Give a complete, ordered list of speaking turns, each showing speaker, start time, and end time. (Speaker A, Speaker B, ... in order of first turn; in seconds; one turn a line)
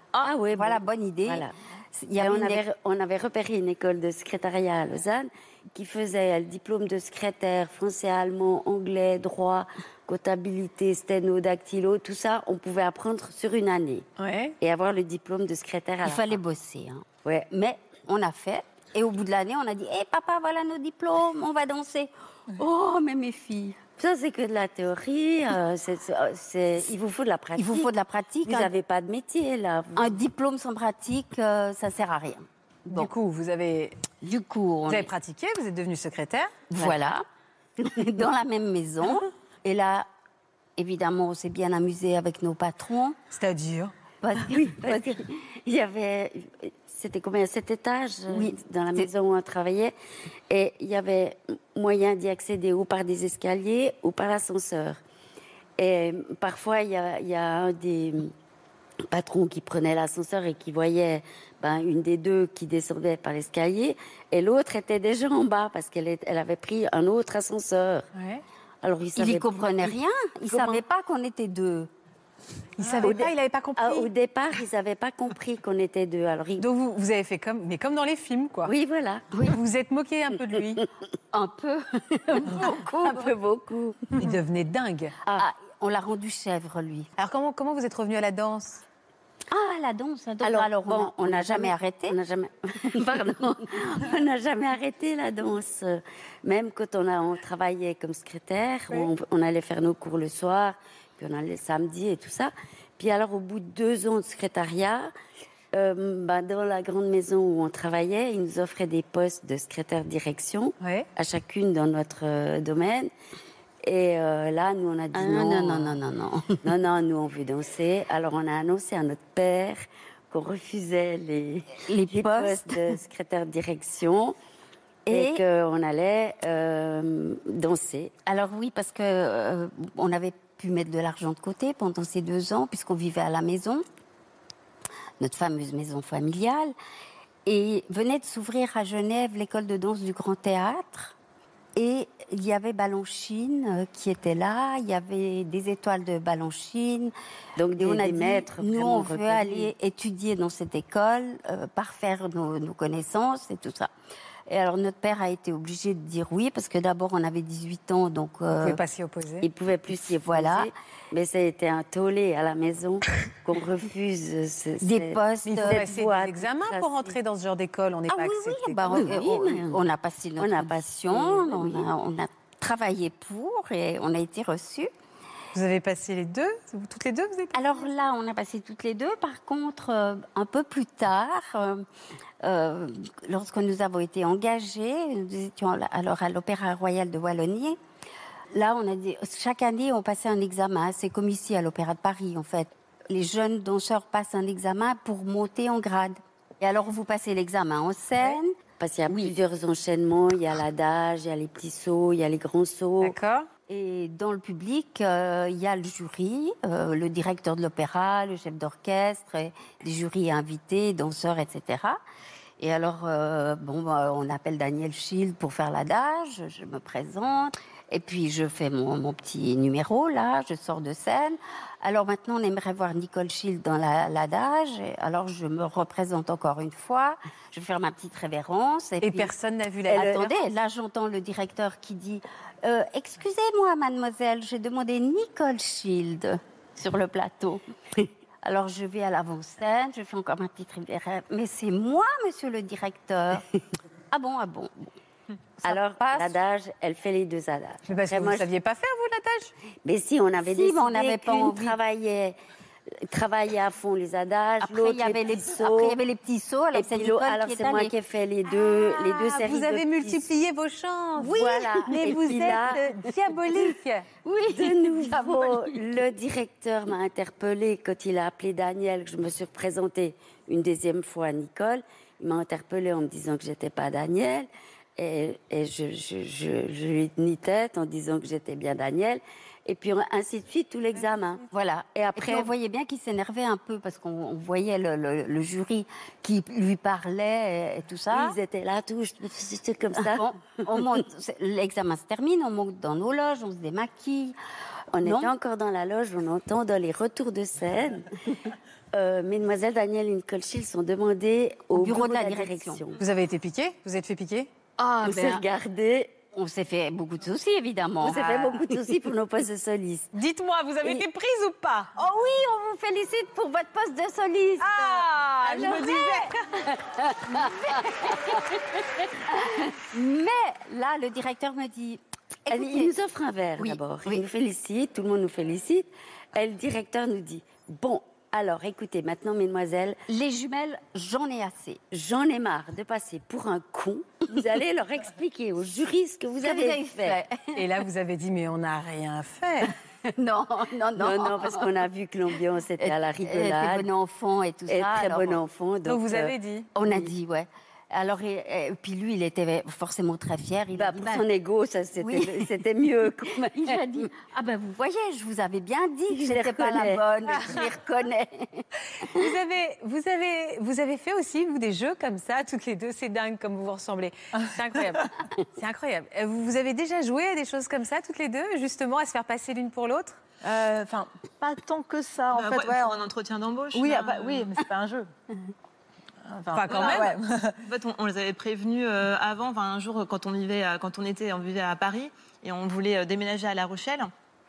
Speaker A: 0.1-1.5
Speaker B: 0.5-2.6
Speaker A: 2.2-14.1
Speaker C: 14.2-14.6
Speaker A: 14.6-16.4
Speaker B: 16.0-23.8
Speaker A: 17.2-17.5
Speaker A: 24.0-27.9
Speaker B: 27.6-28.7
Speaker A: 28.4-30.2
Speaker B: 30.0-33.1
Speaker C: 32.9-34.0
Speaker B: 34.2-35.1
Speaker C: 34.9-36.6
Speaker B: 36.7-37.2
Speaker B: 37.8-40.1
Speaker B: 40.8-43.2
Speaker C: 43.3-43.9
Speaker B: 44.2-45.2
Speaker A: 44.5-49.9
Speaker B: 48.3-49.1
Speaker A: 50.5-55.0
Speaker A: 55.8-58.3
Speaker A: 59.1-68.1
Speaker C: 68.2-68.4
Speaker A: 68.8-70.0
Speaker B: 69.2-71.9
Speaker A: 70.5-70.8
Speaker C: 72.8-74.1
Speaker A: 73.0-76.7
Speaker C: 76.6-78.7
Speaker A: 78.6-79.4
Speaker C: 79.5-80.8
Speaker B: 81.3-83.3
Speaker A: 82.4-84.2
Speaker C: 84.2-85.2
Speaker B: 85.3-87.1
Speaker C: 87.2-88.8
Speaker B: 89.5-92.2
Speaker A: 90.4-105.1
Speaker A: 105.7-113.1
Speaker C: 110.8-111.1
Speaker A: 113.8-116.0
Speaker B: 115.1-116.7
Speaker A: 116.6-124.4
Speaker B: 121.8-123.0
Speaker B: 125.1-125.4
Speaker A: 125.1-128.1
Speaker B: 128.2-133.8
Speaker B: 135.2-136.7
Speaker B: 137.5-141.2
Speaker B: 141.8-147.1
Speaker A: 147.6-149.7
Speaker B: 147.8-153.9
Speaker B: 154.5-158.8
Speaker C: 158.6-159.5
Speaker A: 159.4-167.1
Speaker B: 159.9-160.7
Speaker B: 164.8-165.9
Speaker C: 165.4-169.1
Speaker B: 168.1-174.9
Speaker A: 168.9-169.8
Speaker A: 170.4-171.9
Speaker C: 175.5-177.8
Speaker B: 177.5-181.9
Speaker B: 182.4-187.8
Speaker B: 188.5-198.6
Speaker A: 198.8-203.2
Speaker B: 199.1-199.3
Speaker C: 203.0-203.5
Speaker B: 203.7-212.0
Speaker B: 212.6-229.3
Speaker C: 229.0-230.3
Speaker B: 229.9-237.6
Speaker A: 229.9-230.3
Speaker B: 238.4-243.5
Speaker B: 244.1-244.9
Speaker B: 245.6-246.4
Speaker A: 245.6-248.5
Speaker C: 247.9-249.5
Speaker A: 249.8-252.4
Speaker B: 250.4-251.8
Speaker A: 253.0-256.0
Speaker B: 254.6-257.9
Speaker A: 256.7-260.3
Speaker C: 258.6-264.1
Speaker A: 261.2-262.8
Speaker B: 261.2-262.7
Speaker B: 264.2-265.8
Speaker A: 264.5-282.5
Speaker B: 281.5-288.4
Speaker A: 288.1-291.0
Speaker B: 289.9-294.4
Speaker B: 294.9-295.3
Speaker A: 294.9-298.4
Speaker A: 298.9-303.0
Speaker B: 301.7-302.8
Speaker C: 303.0-304.5
Speaker A: 304.8-306.1
Speaker B: 305.0-305.4
Speaker B: 306.3-308.9
Speaker A: 308.0-310.1
Speaker C: 310.1-311.9
Speaker B: 312.0-322.9
Speaker C: 314.6-316.3
Speaker A: 322.5-330.0
Speaker B: 323.6-324.2
Speaker B: 330.1-331.8
Speaker A: 331.9-337.2
Speaker B: 336.4-337.6
Speaker C: 337.1-339.7
Speaker B: 340.1-341.9
Speaker A: 341.0-343.9
Speaker B: 342.8-345.4
Speaker A: 344.7-347.1
Speaker C: 345.9-346.7
Speaker B: 346.8-351.3
Speaker A: 350.8-354.1
Speaker B: 352.0-358.6
Speaker A: 356.1-357.0
Speaker C: 359.0-370.2
Speaker D: 370.4-373.1
Speaker E: 372.3-374.6
Speaker D: 373.7-375.1
Speaker D: 376.3-377.6
Speaker C: 376.5-377.1
Speaker E: 376.7-384.1